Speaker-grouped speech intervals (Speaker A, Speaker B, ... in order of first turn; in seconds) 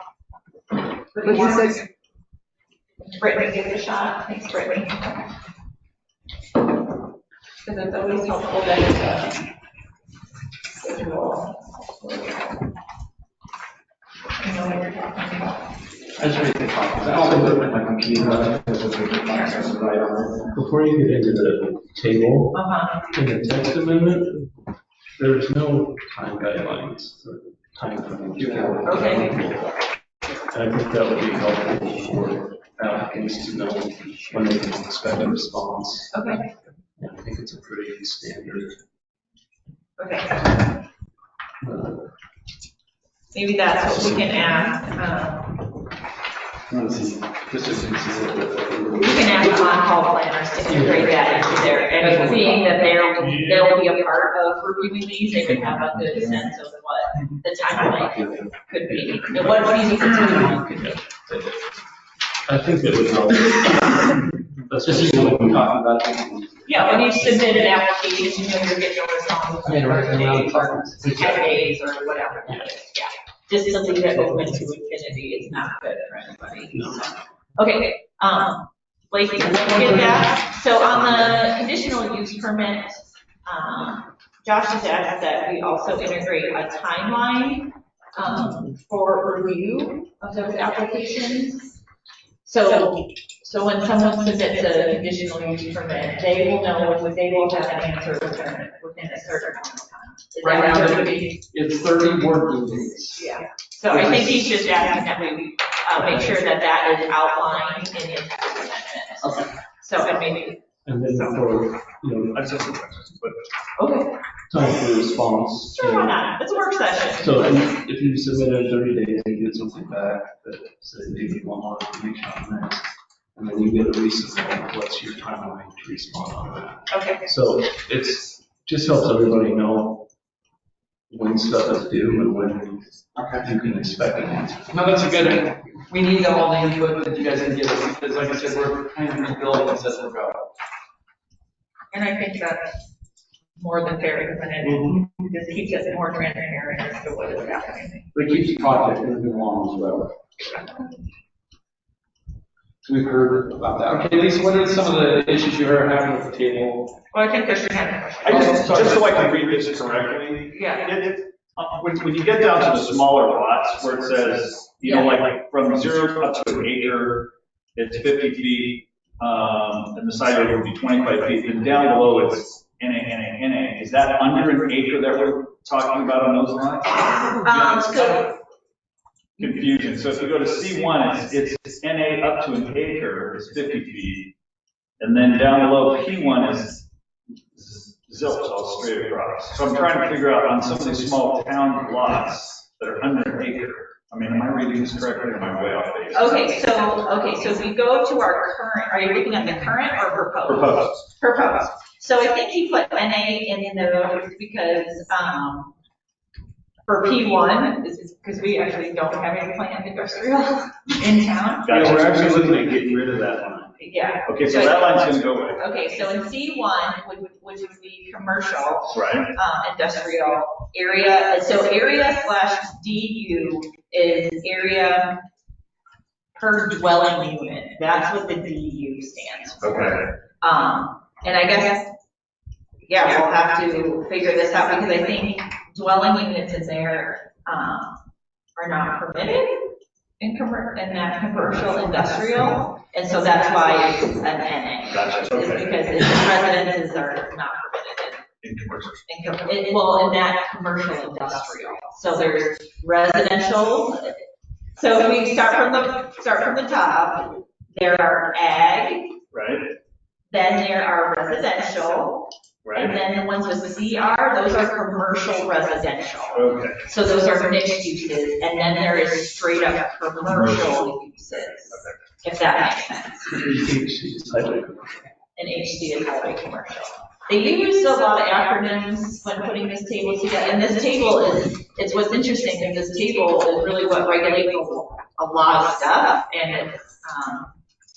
Speaker A: 1.1-1.9, 3.1-5.2, 7.6-9.5, 10.8-12.7, 14.4-15.7, 22.5-23.0, 28.8-29.4, 36.1-36.4, 40.0-40.6, 43.3-45.7, 48.9-61.0, 66.6-91.8, 92.4-101.4, 103.2-110.6, 113.8-114.2, 115.7-117.6, 126.9-127.2, 141.9-142.8, 143.6-148.1, 157.1-158.7, 160.5-160.9, 164.8-165.2, 177.4-178.3, 196.1-205.7, 206.8-212.0, 213.8-225.2, 226.3-229.9, 230.4-231.9, 232.8-238.0, 238.6-248.2, 249.1-254.2, 254.7-259.2, 260.3-273.4, 275.4-287.6
Speaker B: 16.2-20.4, 28.4-29.2, 46.7-49.4, 50.8-52.8, 64.8-67.4, 69.7-71.4, 79.5-80.1, 100.4-103.3, 103.9-104.4, 134.7-140.5, 148.1-150.2, 152.8-157.0, 158.2-159.0
Speaker C: 17.1-18.6, 20.5-24.4, 25.2-29.7, 30.5-36.3, 37.0-38.8, 41.6-42.1, 44.0-44.2, 47.5-48.8, 59.0-59.4, 60.8-61.6, 62.5-65.7, 76.7-77.0, 110.8-112.6, 114.5-116.2, 117.2-130.1, 131.1-134.9, 273.3-275.1
Speaker D: 112.3-113.4, 158.2-178.3, 179.4-184.3, 185.0-186.9, 187.5-196.6, 200.5-201.0, 211.7-215.6, 218.9-219.3, 229.6-230.1, 244.9-245.7, 248.4-249.0, 259.3-259.7, 262.6-262.9, 266.3-266.8